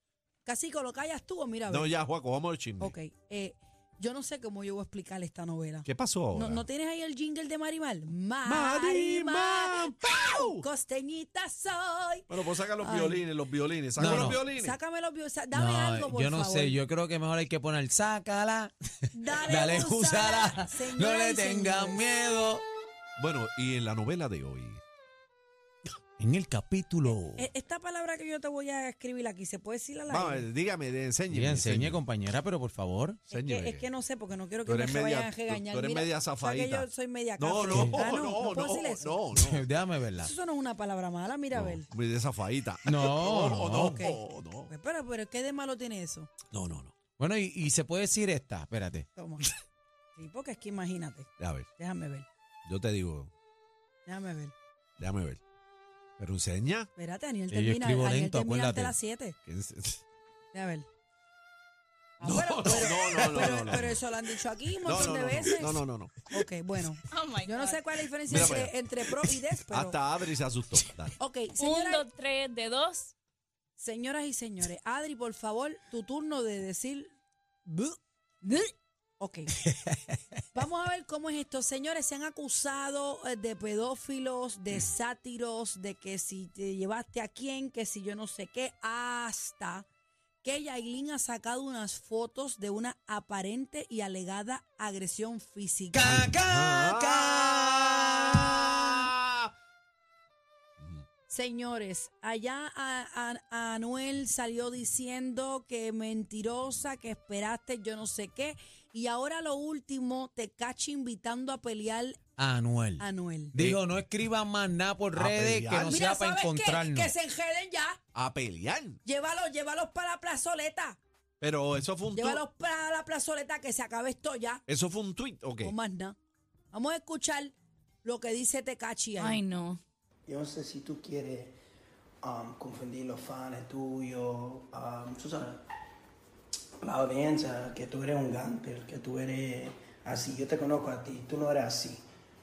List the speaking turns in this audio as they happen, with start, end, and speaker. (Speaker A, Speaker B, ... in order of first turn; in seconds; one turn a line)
Speaker A: 0.4-1.9
Speaker B: 1.7-2.9
Speaker A: 2.8-13.2
Speaker B: 5.8-6.6
Speaker B: 8.4-10.6
Speaker B: 12.3-14.8
Speaker C: 14.0-14.4
Speaker A: 14.0-16.8
Speaker C: 15.5-18.7
Speaker A: 19.1-22.0
Speaker C: 19.4-22.6
Speaker B: 23.2-24.8
Speaker C: 26.2-27.4
Speaker A: 27.4-30.5
Speaker B: 30.1-32.0
Speaker C: 31.3-33.2
Speaker B: 33.3-33.9
Speaker A: 33.3-39.2
Speaker B: 34.7-36.9
Speaker B: 37.4-39.6
Speaker C: 37.7-38.0
Speaker C: 39.3-40.3
Speaker A: 40.2-41.9
Speaker B: 41.5-44.7
Speaker C: 42.9-44.0
Speaker A: 43.7-46.3
Speaker B: 46.5-46.9
Speaker C: 47.2-49.0
Speaker A: 49.1-49.5
Speaker A: 50.1-52.3
Speaker B: 51.4-51.7
Speaker B: 52.6-53.3
Speaker A: 54.0-54.5
Speaker B: 55.0-55.4
Speaker B: 56.2-56.9
Speaker A: 57.0-59.4
Speaker C: 57.5-58.9
Speaker B: 59.5-60.0
Speaker A: 60.5-60.9
Speaker A: 62.2-70.0
Speaker B: 62.2-64.0
Speaker B: 64.8-66.2
Speaker D: 67.1-67.8
Speaker B: 68.3-68.8
Speaker B: 69.7-71.1
Speaker A: 71.2-72.0
Speaker D: 71.6-73.1
Speaker A: 73.8-77.1
Speaker A: 77.7-78.6
Speaker A: 79.2-79.5
Speaker C: 79.8-80.2
Speaker A: 80.5-89.8
Speaker A: 90.4-96.2
Speaker C: 95.9-99.0
Speaker B: 96.0-99.5
Speaker A: 101.3-112.2
Speaker C: 112.4-117.1
Speaker A: 113.0-113.5
Speaker B: 113.6-113.8
Speaker B: 115.1-116.0
Speaker A: 115.8-118.0
Speaker B: 118.1-119.0
Speaker A: 119.0-121.0
Speaker B: 121.4-122.4
Speaker A: 122.1-124.6
Speaker B: 124.7-125.7
Speaker A: 125.6-126.2
Speaker A: 126.7-129.4
Speaker D: 129.2-129.8
Speaker E: 130.3-131.5
Speaker E: 132.2-135.6
Speaker E: 136.8-142.0